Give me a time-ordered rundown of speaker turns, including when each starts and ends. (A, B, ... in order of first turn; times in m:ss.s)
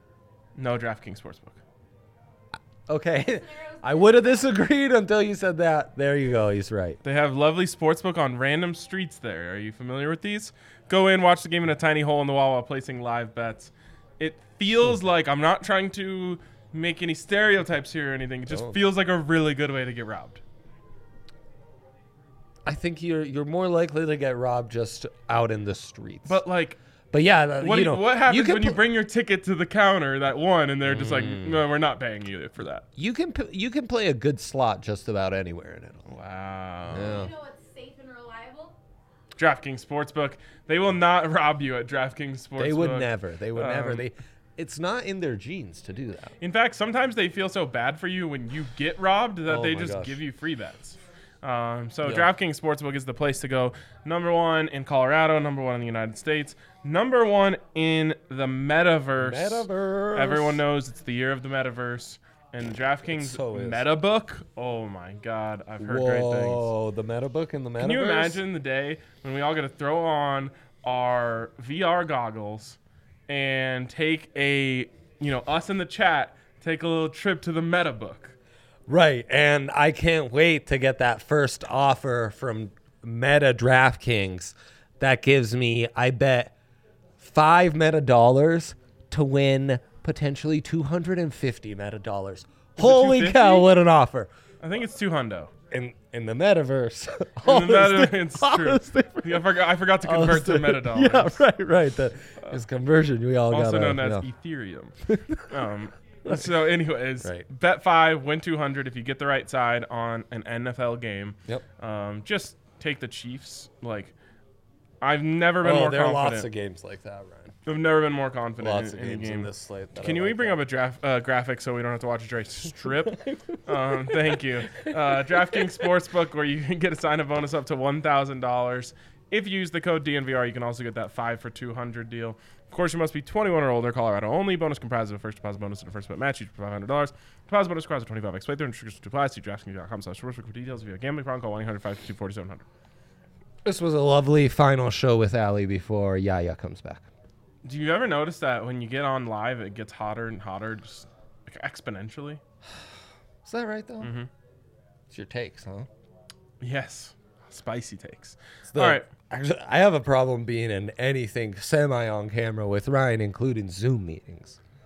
0:00.6-0:01.6 A
0:02.9-0:07.0 B
0:03.2-0:04.6 C
0:07.0-0:20.4 A
0:18.5-0:18.8 B
0:22.6-0:26.4 B
0:26.2-0:26.8 A
0:27.1-0:28.8 B
0:27.6-0:32.8 A
0:30.8-0:31.6 B
0:33.0-0:36.0 B
0:36.0-0:37.2 A
0:36.9-0:37.3 B
0:37.1-0:38.8 C
0:39.4-0:44.0 A
0:42.6-0:46.3 B
0:46.4-1:06.7 A
0:49.5-0:50.2 B
0:52.0-0:52.3 B
0:59.2-1:00.6 B
1:03.1-1:03.9 B
1:05.8-1:08.4 B
1:07.8-1:18.4 A
1:18.9-1:26.5 B
1:27.2-1:34.3 B
1:32.8-1:33.7 A
1:34.6-1:35.5 A
1:35.7-1:44.2 B
1:37.4-1:41.4 A
1:43.5-1:44.9 A
1:45.0-1:45.5 B
1:45.5-1:54.1 A
1:46.2-1:46.5 B
1:55.0-1:56.5 A
1:55.6-1:57.5 B
1:57.6-2:22.6 A
1:58.6-2:00.6 B
2:03.0-2:03.6 B
2:04.3-2:05.6 B
2:23.6-2:27.1 B
2:27.6-2:32.4 A
2:33.4-2:34.1 B
2:34.0-2:34.3 A
2:35.1-2:35.9 B
2:36.6-2:39.1 A
2:38.7-2:44.6 B